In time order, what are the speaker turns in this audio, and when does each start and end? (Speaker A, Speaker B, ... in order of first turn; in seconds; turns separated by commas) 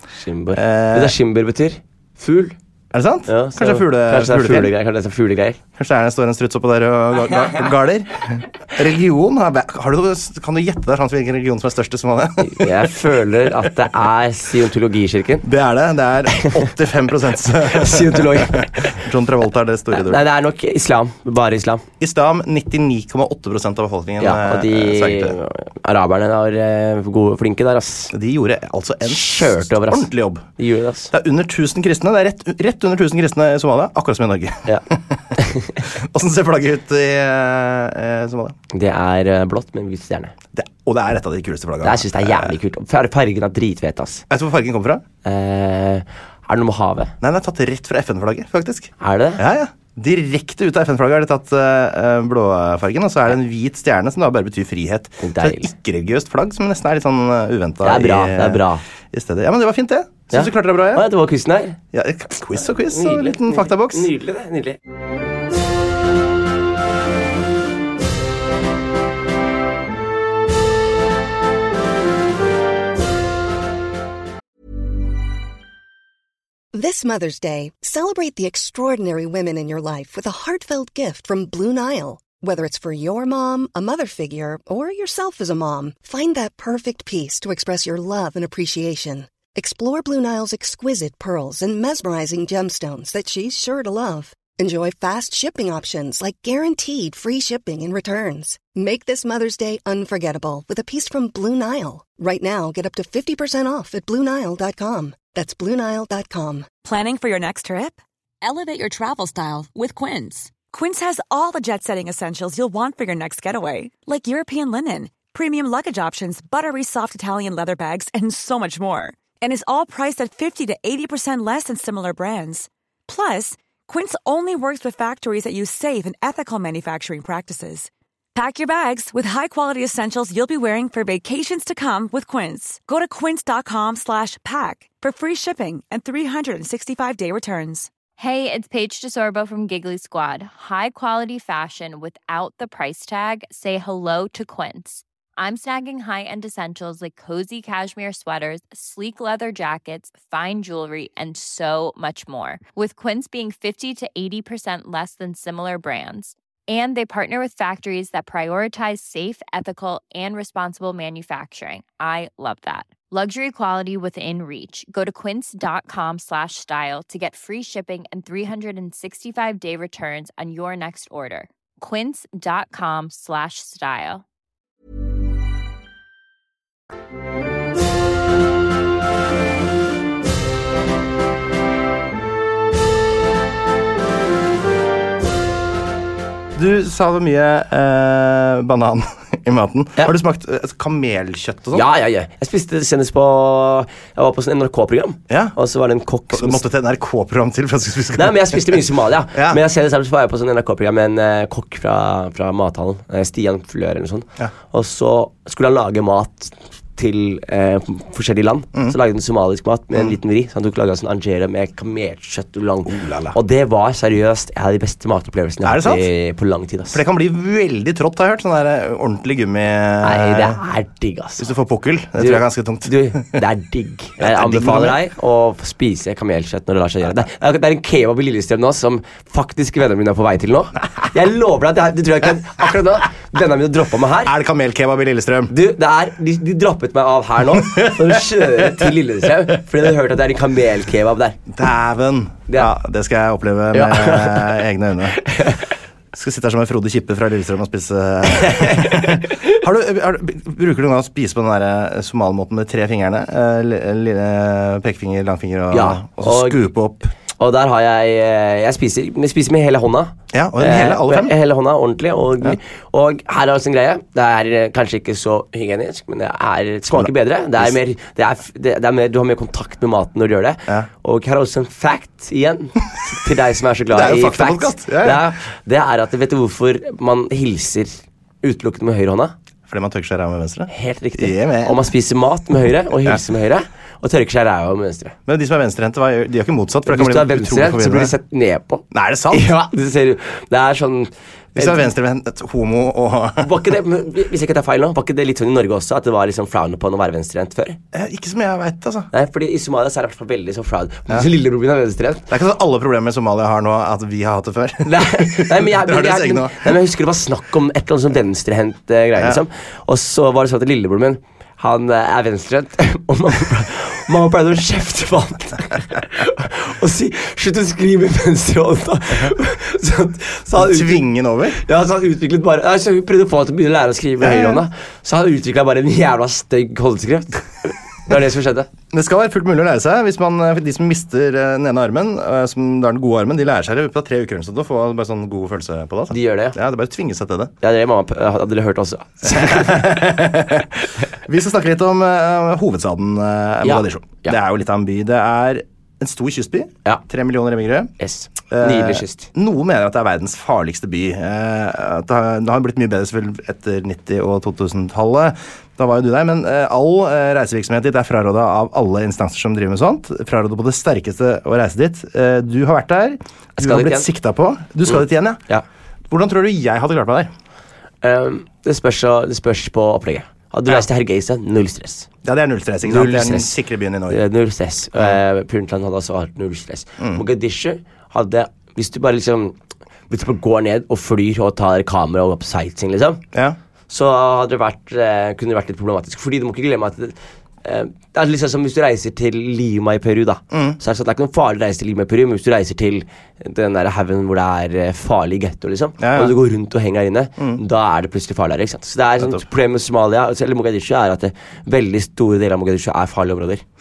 Speaker A: 0.2-2.6, Speaker B: 0.5-1.1, Speaker B: 2.9-4.7, Speaker A: 3.3-5.6, Speaker B: 5.8-12.8, Speaker A: 12.4-15.5, Speaker B: 15.4-20.2, Speaker A: 17.7-19.0, Speaker A: 19.9-21.9, Speaker B: 22.0-25.4, Speaker A: 24.2-28.1, Speaker B: 28.1-30.5, Speaker A: 29.1-31.1, Speaker B: 31.1-35.3, Speaker A: 35.4-35.8, Speaker B: 35.8-38.6, Speaker A: 38.7-40.3, Speaker B: 40.5-42.5, Speaker A: 41.8-44.2, Speaker B: 44.3-45.0, Speaker A: 45.2-47.1, Speaker B: 47.2-61.1, Speaker A: 49.0-49.4, Speaker A: 55.2-55.7, Speaker A: 57.8-58.8, Speaker A: 60.3-61.8, Speaker B: 61.9-64.1, Speaker A: 62.9-64.8, Speaker C: 76.7-106.7, Speaker D: 106.8-137.9, Speaker E: 138.2-174.2, Speaker B: 186.6-191.9, Speaker A: 191.7-196.6, Speaker B: 195.3-195.6, Speaker B: 196.3-198.8, Speaker A: 198.2-217.0, Speaker B: 199.3-199.6, Speaker B: 212.9-213.4, Speaker B: 215.6-216.1, Speaker B: 216.9-220.6, Speaker A: 220.0-221.5, Speaker B: 221.4-223.4, Speaker A: 222.2-234.3, Speaker B: 224.2-225.0, Speaker B: 234.2-235.5, Speaker A: 235.5-241.4, Speaker B: 237.5-238.9, Speaker B: 241.5-245.2, Speaker A: 243.7-244.6, Speaker A: 245.2-245.6, Speaker B: 246.1-257.1, Speaker A: 248.3-249.4, Speaker A: 255.7-256.6, Speaker A: 257.4-279.4, Speaker B: 260.3-261.4, Speaker B: 266.9-267.7, Speaker B: 273.9-275.3, Speaker B: 279.7-281.8, Speaker A: 280.7-285.1, Speaker B: 285.3-288.1, Speaker A: 286.9-291.9, Speaker B: 288.9-289.5, Speaker B: 291.6-293.5, Speaker A: 293.4-297.8, Speaker B: 297.9-299.1, Speaker A: 299.1-302.3, Speaker B: 302.3-306.7, Speaker A: 304.9-328.7, Speaker B: 309.2-309.4, Speaker B: 320.6-321.6, Speaker B: 324.2-324.6, Speaker B: 328.9-337.5, Speaker A: 336.1-336.6, Speaker A: 337.6-340.0, Speaker B: 339.2-347.9, Speaker A: 343.6-344.4, Speaker A: 348.0-349.3, Speaker B: 348.5-365.4, Speaker A: 363.6-364.1, Speaker A: 364.9-365.6, Speaker B: 366.1-367.3, Speaker A: 368.0-372.1, Speaker B: 372.2-374.2, Speaker A: 372.9-373.6, Speaker A: 374.1-379.6, Speaker A: 380.1-383.2, Speaker A: 383.9-403.6, Speaker B: 390.5-390.8, Speaker B: 396.0-396.4